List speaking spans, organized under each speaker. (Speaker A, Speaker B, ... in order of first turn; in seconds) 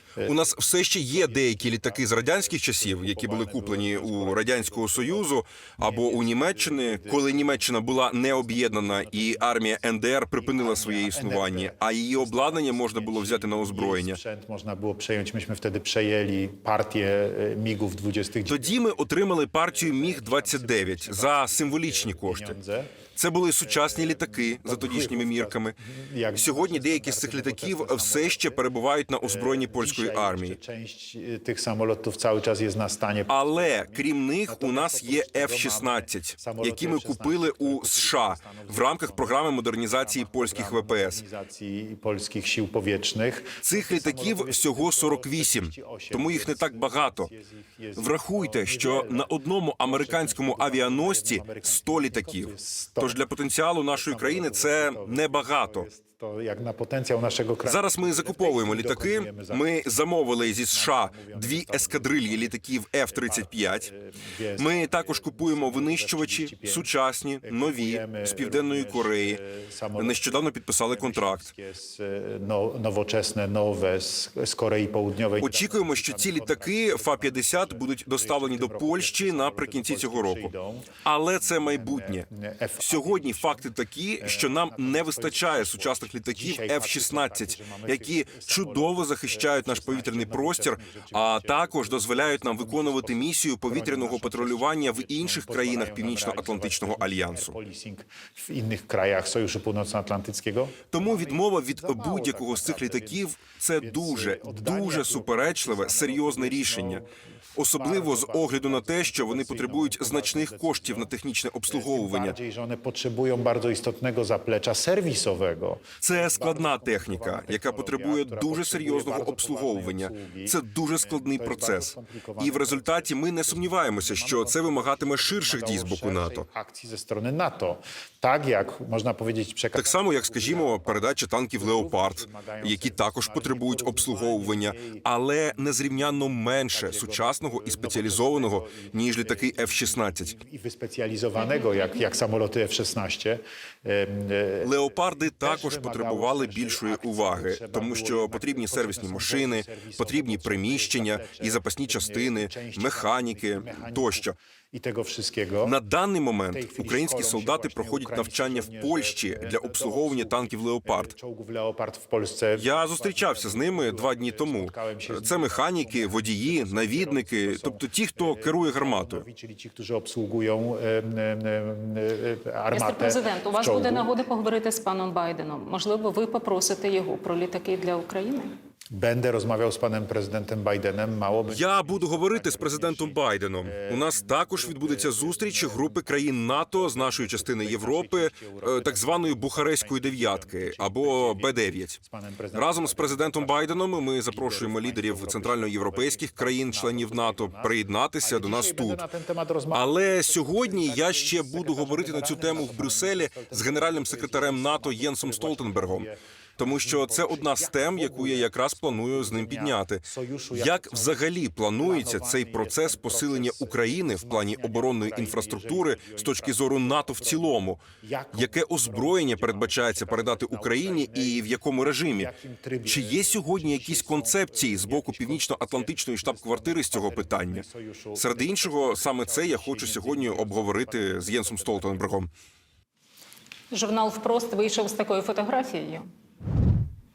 Speaker A: 0.2-0.4, 1.1-5.3, 5.8-18.8, 19.6-22.9, 23.6-28.6, 29.2-53.2, 53.9-59.6, 60.5-62.6, 63.1-66.9, 67.4-83.7, 84.2-103.2, 103.8-111.1, 111.7-135.0, 136.7-144.8, 145.4-155.8, 156.5-174.1, 178.9-211.2, 211.8-232.1
Speaker B: 0.2-14.2, 18.4-22.6, 23.2-25.8, 26.4-30.6, 33.3-41.2, 43.6-47.3, 48.0-55.9, 57.6-63.9, 64.6-69.4, 70.0-71.5, 75.4-82.3, 82.8-97.6, 100.9-107.0, 107.5-112.4, 116.0-126.5, 129.7-140.4, 144.6-154.4, 155.6-161.1, 162.6-169.2, 181.5-192.0, 192.5-199.1, 199.7-222.3, 222.8-227.6, 228.2-232.3
Speaker C: 172.7-178.5, 233.7-236.1